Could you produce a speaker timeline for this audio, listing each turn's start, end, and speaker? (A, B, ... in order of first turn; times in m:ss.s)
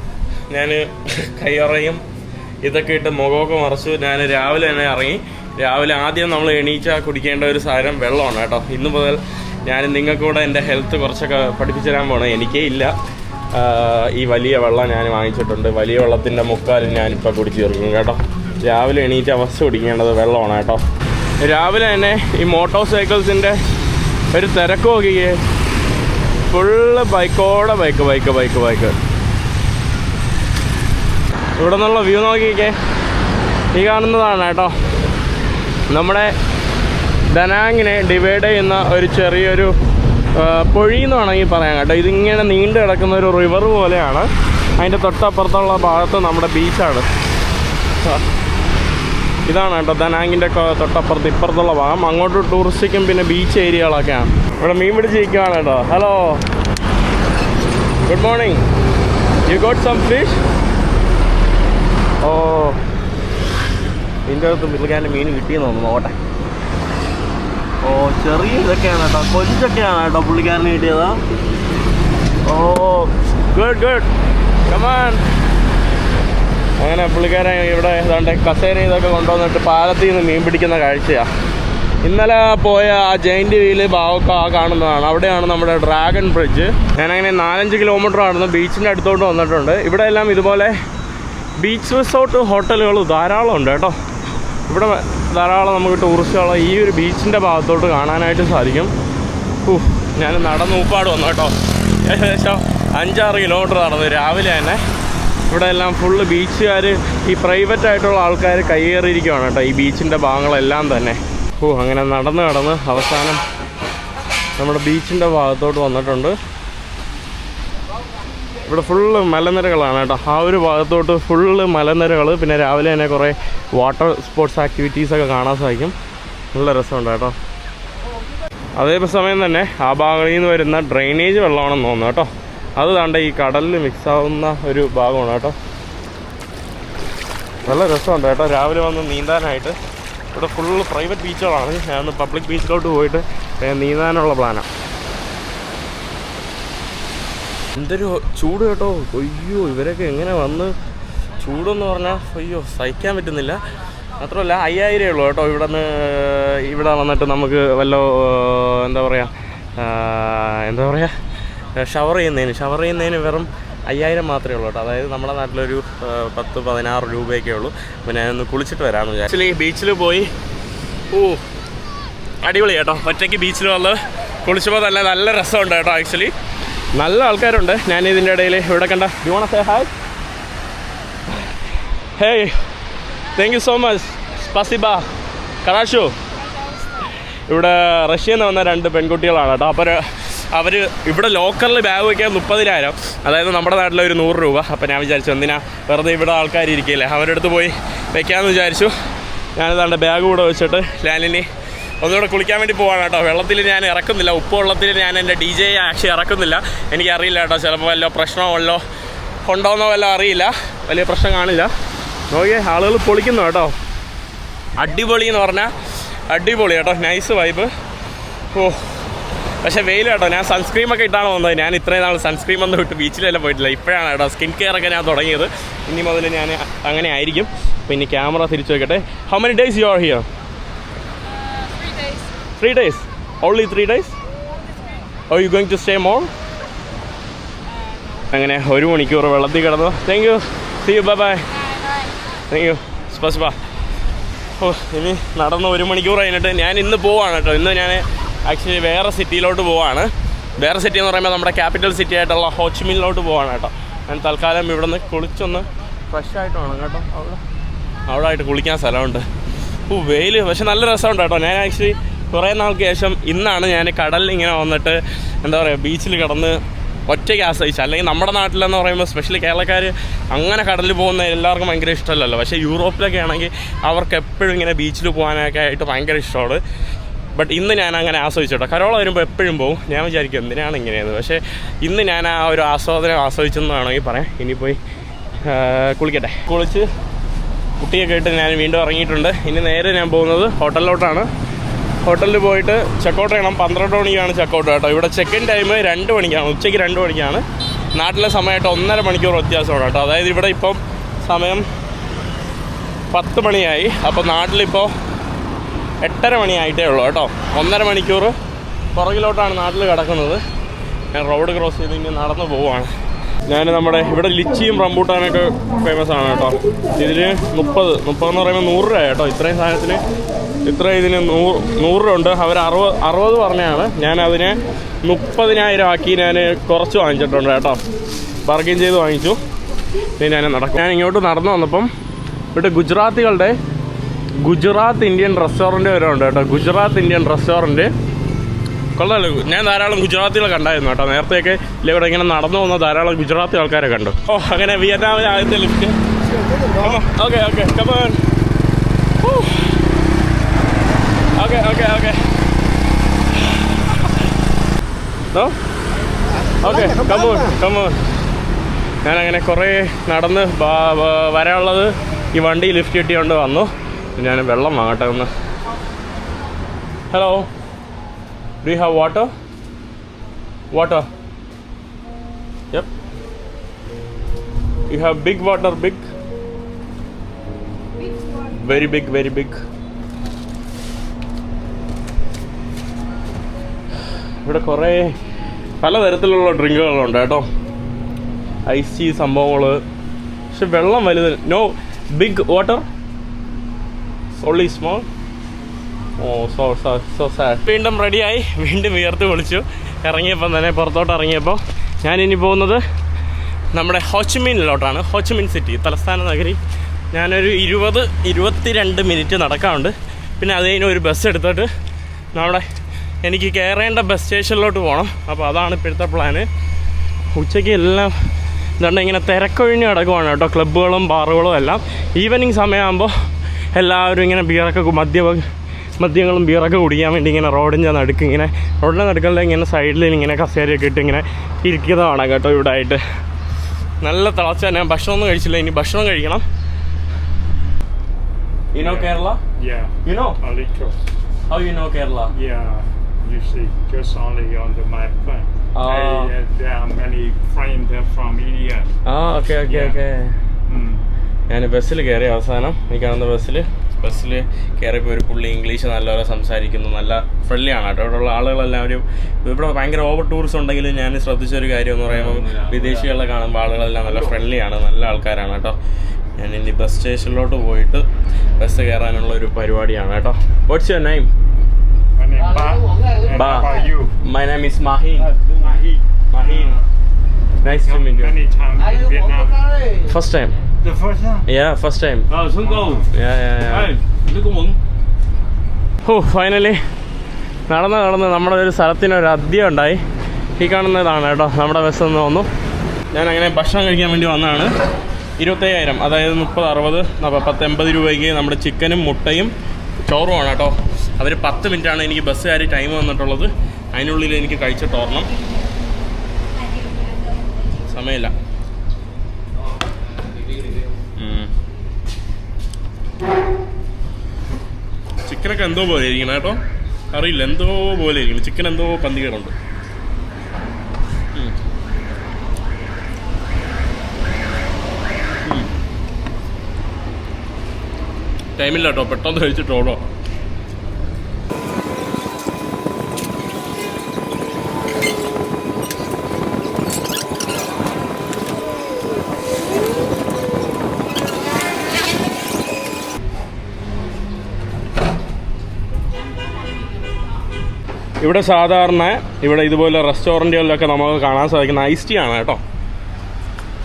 0:00.5-0:02.0 A
0:02.6-0:12.9 A
0:13.5-0:20.8 A
0:21.4-0:23.6 A
0:24.3-0:25.4 A
0:26.5-0:29.0 A
0:31.6-0:32.8 A
0:33.7-0:34.8 A
0:35.9-0:36.3 A
0:37.3-0:39.8 A
0:40.4-0:47.1 A
0:49.5-0:56.4 A
0:58.1-0:58.6 A
0:59.5-1:00.4 A
1:02.2-1:02.8 A
1:04.3-1:06.2 A
1:07.8-1:11.2 A
1:12.4-1:14.1 A
1:14.7-1:15.2 A
1:16.8-1:21.3 A
1:22.0-1:30.8 A
1:31.6-1:34.0 A
1:34.7-1:38.9 A
1:39.6-1:44.8 A
1:45.5-1:53.4 A
1:54.6-1:56.4 A
1:58.7-2:06.0 A
2:06.5-2:07.4 A
2:08.8-2:15.6 A
2:17.7-2:19.8 A
2:20.3-2:24.7 A
2:27.8-2:30.7 A
2:31.4-2:33.6 A
2:34.2-2:41.1 A
2:41.8-2:50.3 A
2:51.1-2:51.4 A
2:52.4-2:56.3 A
2:57.0-2:59.9 A
3:02.2-3:02.6 A
3:03.4-3:05.0 A
3:05.6-3:06.1 A
3:07.5-3:18.9 A
3:19.6-3:21.5 A
3:22.0-3:28.8 A
3:29.4-3:31.7 A
3:32.3-3:33.7 A
3:34.8-3:35.7 A
3:36.3-3:37.7 A
3:38.5-3:39.0 A
3:39.6-3:50.3 A
3:52.6-3:54.2 A
3:55.3-3:56.3 A
3:58.2-4:01.5 A
4:02.5-4:03.6 A
4:04.6-4:17.4 A
4:18.1-4:19.2 A
4:19.9-4:36.6 A
4:37.4-4:44.8 A
4:45.4-4:46.9 A
4:47.8-4:51.3 A
4:52.0-5:01.7 A
5:03.1-5:04.9 A
5:06.0-5:08.4 A
5:09.0-5:10.4 A
5:11.1-5:12.9 A
5:13.5-5:20.0 A
5:20.7-5:27.8 A
5:28.4-5:29.4 A
5:30.2-5:31.9 A
5:32.5-5:33.6 A
5:34.4-5:37.9 A
5:39.0-5:46.0 A
5:46.7-5:48.2 A
5:49.2-5:49.7 A
5:51.4-5:52.2 A
5:56.6-5:58.0 A
5:59.0-6:05.3 A
6:07.1-6:07.5 A
6:08.6-6:09.3 A
6:10.7-6:11.1 A
6:14.9-6:16.0 A
6:18.5-6:19.6 A
6:24.4-6:25.2 A
6:25.8-6:27.5 A
6:28.7-6:29.8 A
6:30.5-6:32.9 A
6:34.4-6:35.1 A
6:36.2-6:42.8 A
6:43.7-6:46.6 A
6:47.1-6:51.7 A
6:52.4-6:52.7 A
6:53.2-6:56.5 A
6:57.3-6:58.3 A
6:58.8-7:03.1 A
7:03.7-7:05.5 A
7:06.0-7:13.0 A
7:14.0-7:16.4 A
7:18.7-7:19.4 A
7:18.8-7:21.0 B
7:20.0-7:20.4 A
7:21.5-7:22.3 A
7:22.3-7:28.9 B
7:25.8-7:26.3 A
7:29.1-7:30.4 A
7:29.7-7:30.0 B
7:30.7-7:31.0 B
7:31.5-7:45.8 A
7:42.2-7:43.0 C
7:46.4-7:48.1 A
7:48.6-7:51.3 A
7:52.2-7:54.1 B
7:53.3-7:53.7 A
7:54.2-7:55.3 A
7:56.3-7:56.8 A
7:56.4-7:56.8 B
7:57.6-7:58.3 A
7:57.8-7:59.7 B
8:00.0-8:00.6 A
8:00.8-8:01.4 B
8:01.5-8:02.3 A
8:02.3-8:03.0 C
8:02.6-8:03.0 B
8:03.1-8:04.0 A
8:03.8-8:04.8 C
8:06.0-8:06.8 A
8:07.7-8:10.0 A
8:10.6-8:12.5 A
8:13.1-8:14.7 A
8:15.4-8:19.5 A
8:20.0-8:25.3 A
8:27.8-8:28.3 A
8:31.2-8:31.5 A
8:35.2-8:36.6 A
8:37.1-8:39.6 A
8:48.6-8:50.0 A
9:08.2-9:12.6 A